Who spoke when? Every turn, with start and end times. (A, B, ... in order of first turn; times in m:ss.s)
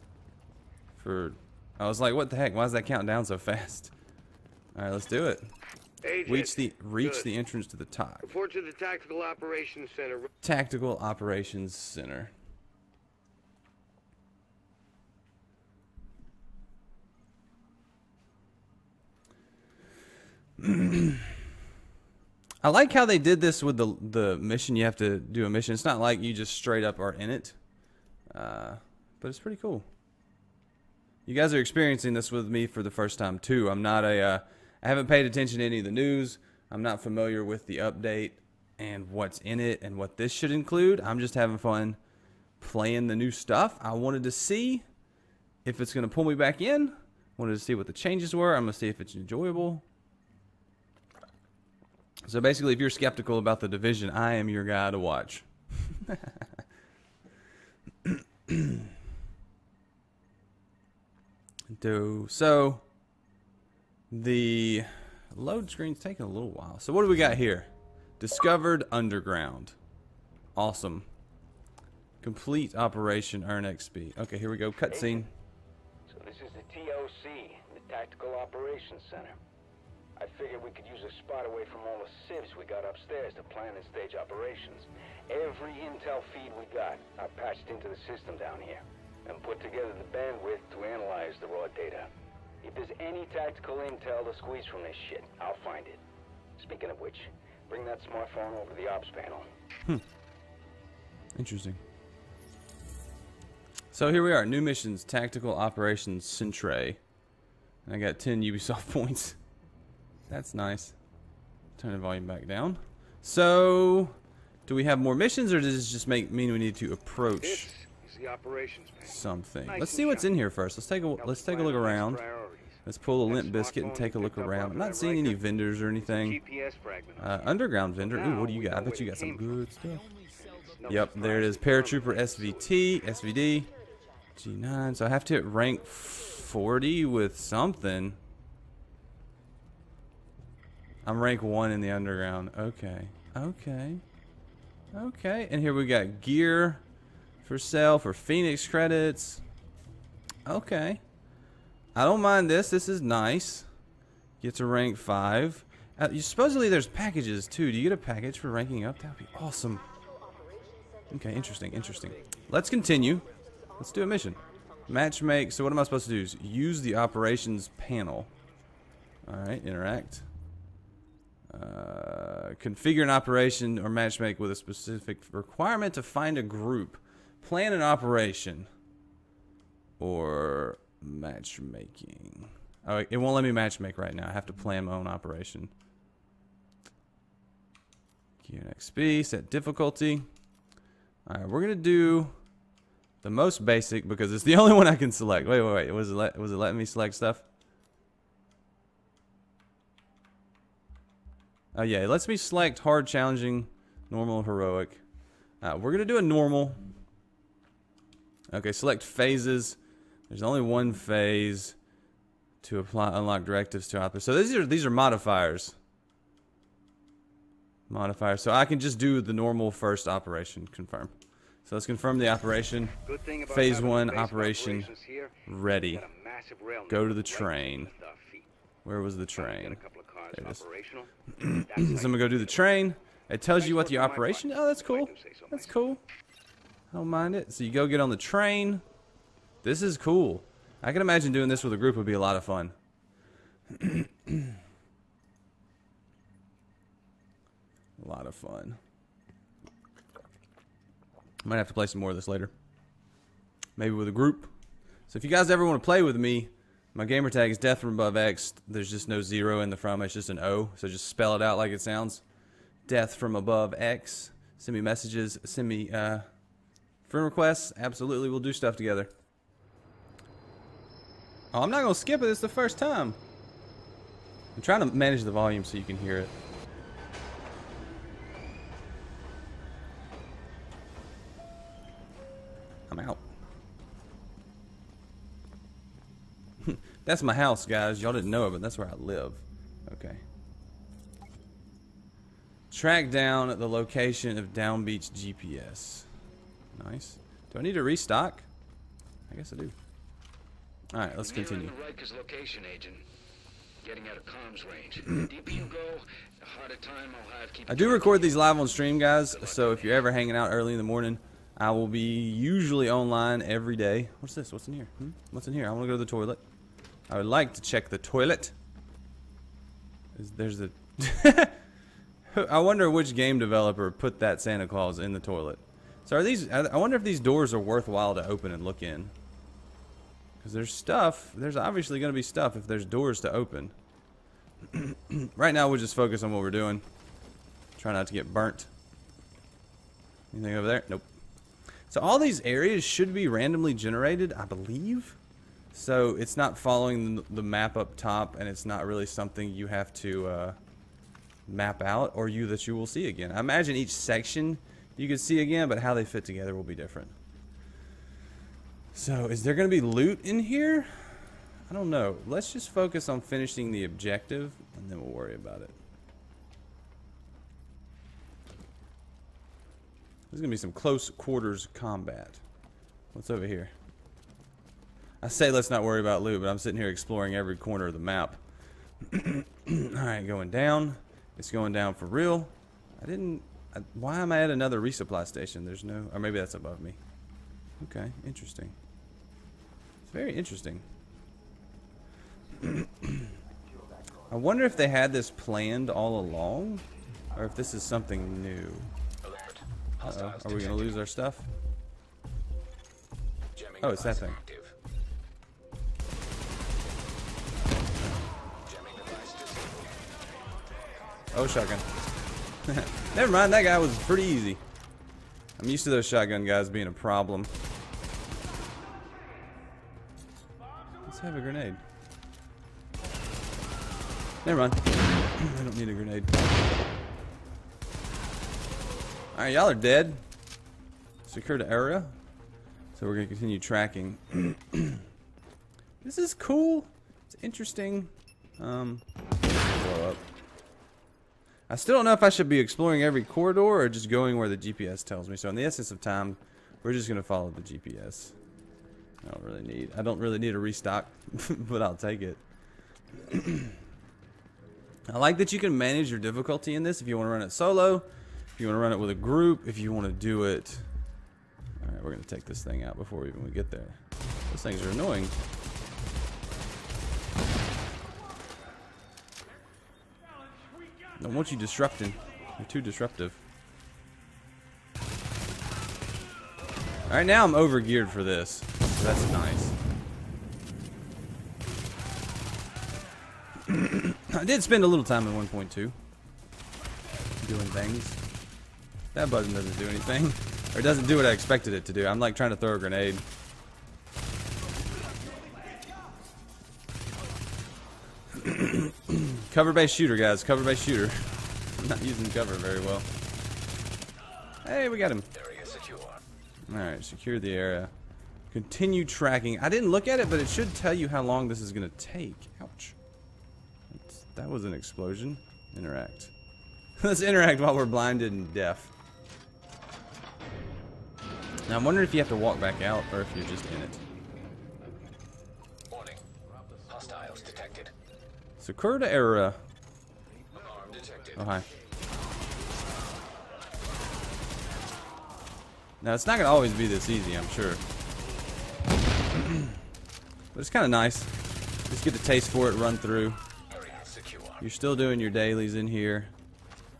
0:00.9-0:03.9 A
0:04.7-0:05.5 A
0:06.0-0:07.3 B
0:06.2-0:08.4 A
0:08.2-0:10.3 B
0:10.4-0:12.3 A
0:20.6-0:21.4 A
0:22.6-0:27.6 A
0:28.3-0:29.8 A
0:31.2-0:42.0 A
0:42.6-0:44.8 A
0:45.6-0:49.8 A
0:52.2-0:56.5 A
0:58.0-0:58.9 A
1:01.7-1:02.8 A
1:04.1-1:09.8 A
1:10.5-1:11.1 A
1:12.2-1:15.3 A
1:14.9-1:15.2 C
1:16.1-1:19.4 C
1:20.2-1:32.1 C
1:32.6-1:36.0 C
1:36.6-1:39.5 C
1:41.3-1:41.8 A
1:43.9-1:47.0 A
1:47.8-1:49.4 A
1:50.3-1:51.0 A
1:51.8-1:57.7 A
1:57.3-2:00.3 B
1:59.0-2:02.2 A
2:01.2-2:05.4 B
2:02.8-2:06.4 A
2:06.0-2:09.6 B
2:07.2-2:10.1 A
2:10.4-2:12.8 B
2:10.8-2:13.7 A
2:14.3-2:18.2 A
2:21.0-2:24.0 A
2:24.9-2:26.8 A
2:27.4-2:29.4 A
2:30.4-2:31.0 A
2:31.9-2:33.7 A
2:34.4-2:39.9 A
2:41.1-2:48.3 A
2:49.2-2:50.2 A
2:51.5-2:58.7 A
3:00.0-3:05.7 A
3:08.4-3:10.3 A
3:11.2-3:12.4 A
3:13.2-3:17.4 A
3:21.7-3:25.0 A
3:25.6-3:26.8 A
3:28.5-3:31.8 A
3:32.6-3:35.8 A
3:37.9-3:41.1 A
3:41.6-3:44.9 A
3:43.0-3:48.5 B
3:45.4-3:46.1 A
3:46.9-3:47.9 A
3:48.8-3:50.6 A
3:49.3-3:52.9 B
3:51.3-3:56.0 A
3:53.5-3:55.8 B
3:56.9-3:58.8 A
3:59.6-4:02.7 A
4:03.7-4:04.6 A
4:08.0-4:08.8 A
4:11.4-4:12.5 A
4:13.8-4:14.5 A
4:15.1-4:22.2 A
4:22.8-4:26.3 A
4:27.0-4:29.1 A
4:31.5-4:33.2 A
4:34.6-4:36.3 A
4:42.9-4:43.2 A
4:46.6-4:50.2 A
4:52.7-4:56.1 A
4:56.7-4:58.5 A
4:59.3-4:59.8 A
5:00.9-5:01.8 A
5:01.8-5:03.0 D
5:03.8-5:05.2 D
5:05.7-5:08.1 D
5:07.6-5:16.4 A
5:17.1-5:18.5 A
5:20.1-5:21.6 A
5:22.3-5:29.1 A
5:30.4-5:33.7 A
5:34.7-5:36.8 A
5:37.8-5:38.7 A
5:40.3-5:41.1 A
5:41.9-5:45.2 A
5:45.7-5:50.6 A
5:51.5-5:57.1 A
5:58.9-6:05.8 A
6:10.3-6:12.4 A
6:13.1-6:13.7 A
6:15.2-6:18.4 A
6:19.0-6:27.0 A
6:27.8-6:28.7 A
6:30.0-6:30.8 A
6:32.6-6:33.3 A
6:34.3-6:36.8 A
6:37.3-6:38.9 A
6:39.2-6:41.0 D
6:40.0-6:41.5 A
6:43.5-6:44.7 D
6:43.8-6:44.4 A
6:48.6-6:50.0 D
6:51.3-6:51.8 A
6:52.7-6:54.6 A
6:55.6-6:57.5 A
7:01.0-7:01.8 A
7:04.4-7:06.3 A
7:09.3-7:10.2 A
7:11.2-7:12.2 A
7:12.9-7:15.0 A
7:16.0-7:20.2 A
7:21.7-7:28.3 A
7:29.2-7:32.4 A
7:33.2-7:33.8 A
7:35.1-7:40.8 A
7:41.8-7:45.3 A
7:51.2-7:53.4 A
7:57.1-7:59.8 A
8:03.6-8:06.0 A
8:07.4-8:08.2 A
8:09.1-8:13.2 A
8:18.3-8:23.1 A
8:24.6-8:25.3 A
8:25.3-8:26.2 D
8:26.7-8:27.9 A
8:28.5-8:33.0 A
8:33.9-8:36.3 A
8:37.0-8:38.9 A
8:41.7-8:44.0 A
8:45.9-8:46.2 D
8:46.8-8:47.9 D
8:48.6-8:49.6 A
8:50.5-8:51.6 D
8:51.4-8:51.7 A
8:56.0-8:57.8 A
8:59.3-8:59.7 A
9:00.5-9:01.3 A
9:01.9-9:03.4 A
9:03.7-9:04.6 D
9:04.6-9:06.3 A